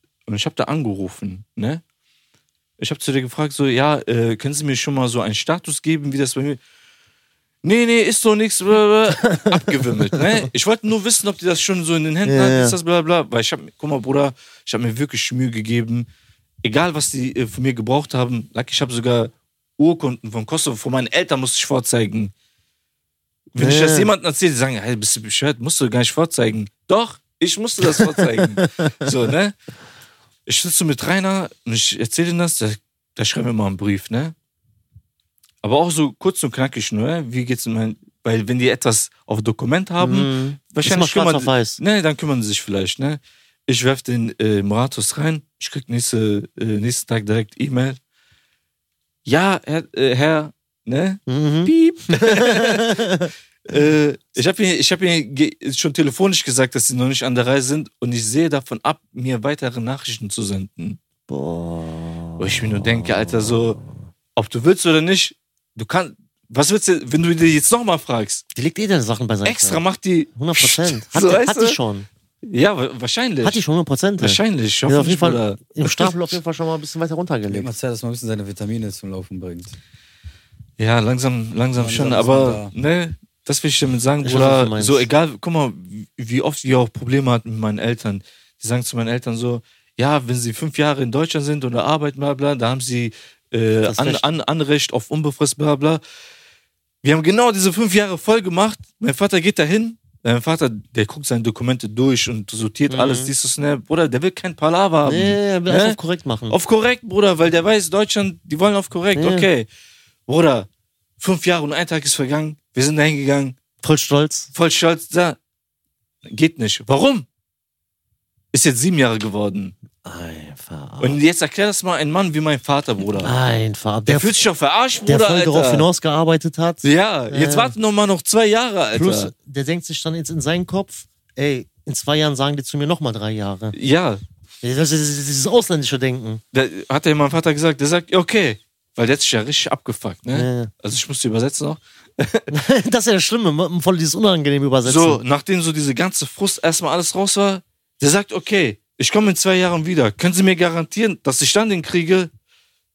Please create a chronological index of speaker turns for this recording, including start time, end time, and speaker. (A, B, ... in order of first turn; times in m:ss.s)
0:00.3-0:01.8 A
0:02.8-0:06.6 A
0:07.6-0:16.1 A
0:09.3-0:10.2 B
0:12.2-0:12.8 B
0:16.6-0:22.3 A
0:23.5-0:29.6 A
0:23.6-0:24.1 B
0:27.8-0:29.3 B
0:30.5-0:34.3 A
0:35.6-0:48.0 A
0:40.0-0:41.8 B
0:49.3-1:01.0 A
0:51.3-0:53.3 B
1:01.3-1:03.8 B
1:02.4-1:03.8 A
1:04.4-1:08.4 A
1:08.6-1:09.8 B
1:09.4-1:11.8 A
1:10.4-1:12.1 B
1:12.4-1:13.6 A
1:13.4-1:17.7 B
1:14.2-1:16.2 A
1:17.5-1:19.8 C
1:20.8-1:36.0 A
1:21.8-1:22.7 C
1:24.2-1:25.1 B
1:33.8-1:34.3 B
1:37.0-1:46.0 A
1:42.9-1:43.3 B
1:45.0-1:46.6 B
1:46.5-1:49.7 A
1:49.2-1:49.5 B
1:50.3-1:50.7 A
1:51.2-1:53.6 A
1:53.8-1:54.5 B
1:54.5-1:55.4 A
1:56.3-1:57.3 A
1:58.5-1:59.7 A
2:00.0-2:01.2 B
2:01.0-2:03.4 A
2:03.2-2:04.5 B
2:04.1-2:05.9 A
2:05.0-2:07.8 B
2:06.8-2:09.3 A
2:08.9-2:13.8 B
2:13.8-2:14.2 A
2:14.6-2:16.4 B
2:16.5-2:22.5 A
2:20.3-2:20.7 B
2:22.5-2:25.2 B
2:24.8-2:32.3 A